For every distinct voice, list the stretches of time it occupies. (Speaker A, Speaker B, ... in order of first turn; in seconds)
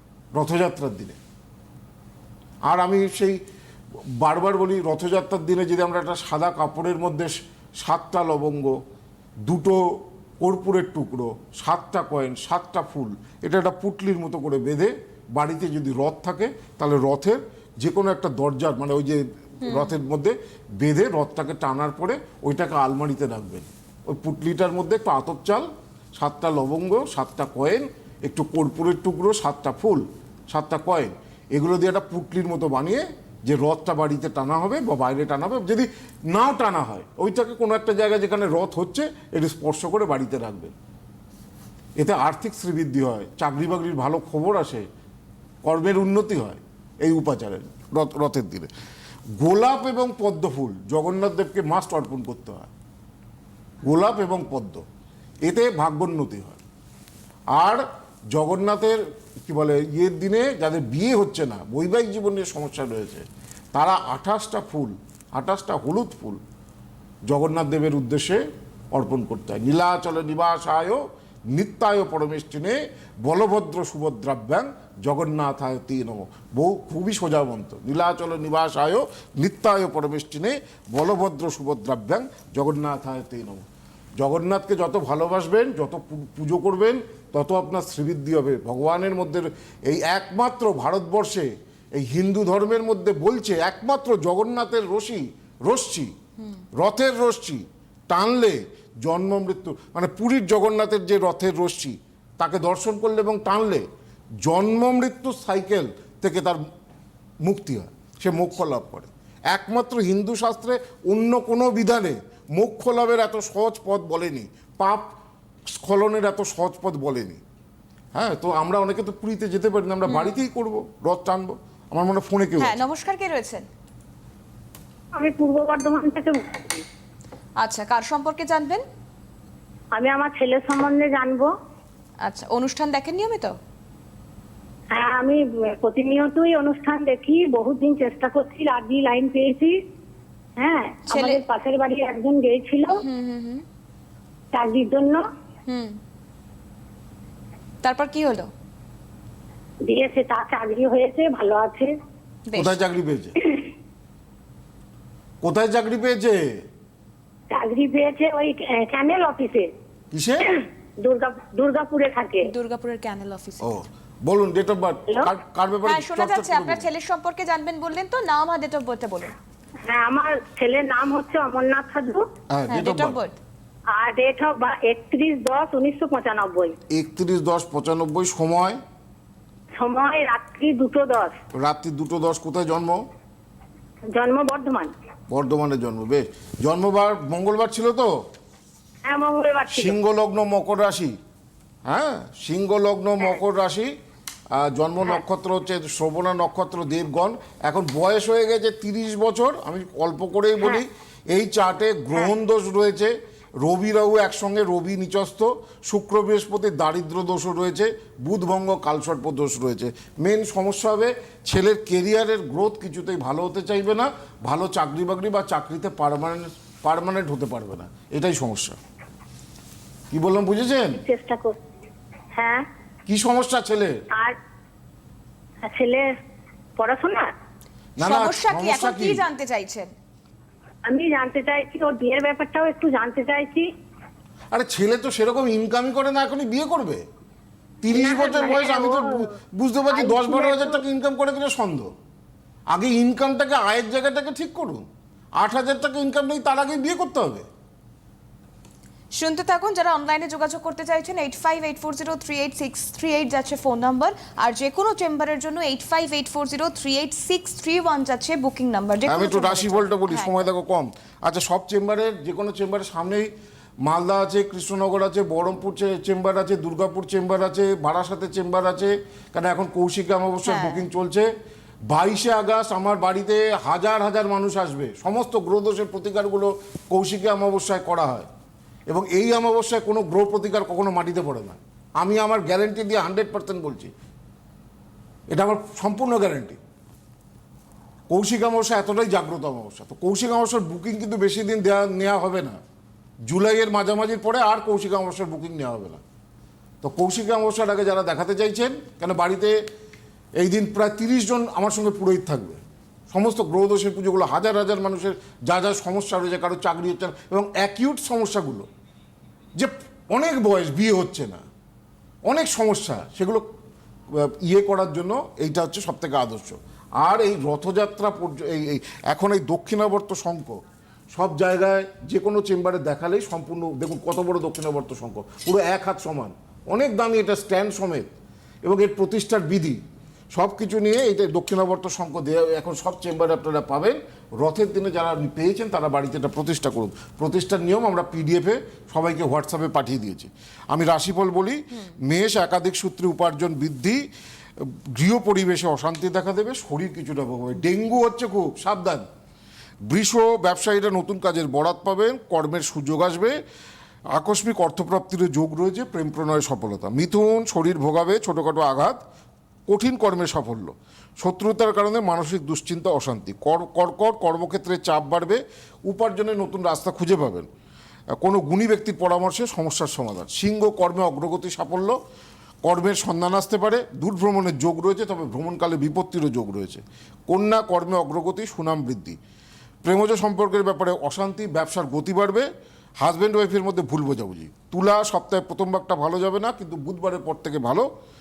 Speaker A: 0.3-1.2, 2.7-3.4, 4.2-8.8, 9.4-40.7, 42.0-44.9, 45.6-48.7, 49.4-52.7, 53.9-54.8, 55.4-56.6, 57.5-66.4, 67.3-83.6, 84.2-96.1, 96.8-103.8, 104.4-106.6, 107.4-115.1, 115.7-117.4, 118.1-122.8, 152.5-153.3, 155.4-156.5, 160.1-160.5, 163.6-166.9, 172.5-173.2, 176.9-178.8, 181.5-183.0, 185.3-188.1, 189.7-191.2, 191.8-193.9, 194.5-218.8, 220.1-221.0, 223.1-223.9, 228.0-229.2, 234.5-237.0, 237.8-241.9, 242.7-244.8, 245.4-247.4, 259.1-263.3, 263.8-271.3, 271.9-278.3, 278.9-283.9, 285.3-286.6, 288.1-292.6, 293.3-296.0, 296.8-299.6, 300.4-308.7, 309.6-311.4, 312.3-313.4, 314.1-320.6, 321.1-328.1, 328.6-329.8, 330.3-344.0, 344.6-349.1, 349.9-353.4, 354.1-359.0, 359.7-367.5, 368.2-372.0, 372.6-379.2, 379.8-382.4, 383.0-387.9
Speaker B: 19.6-19.9, 120.1-120.3, 122.6-123.7, 127.6-128.8, 132.2-133.6, 141.1-141.4, 142.9-143.6, 145.7-146.0, 147.8-148.5, 152.5-152.8, 162.4-163.7, 165.8-169.3, 172.7-173.4, 228.0-229.9, 249.2-260.4, 270.4-270.8
Speaker C: 125.1-126.8, 129.9-131.5, 134.9-139.8, 140.6-143.0, 144.5-145.2, 149.8-151.9, 157.5-159.7, 160.4-162.5, 169.8-172.2, 173.9-176.8, 179.8-181.4, 184.1-184.9, 189.0-189.9, 220.9-221.6, 222.3-222.7, 225.6-226.1, 226.8-227.3, 230.8-233.7, 237.9-239.3, 239.9-240.8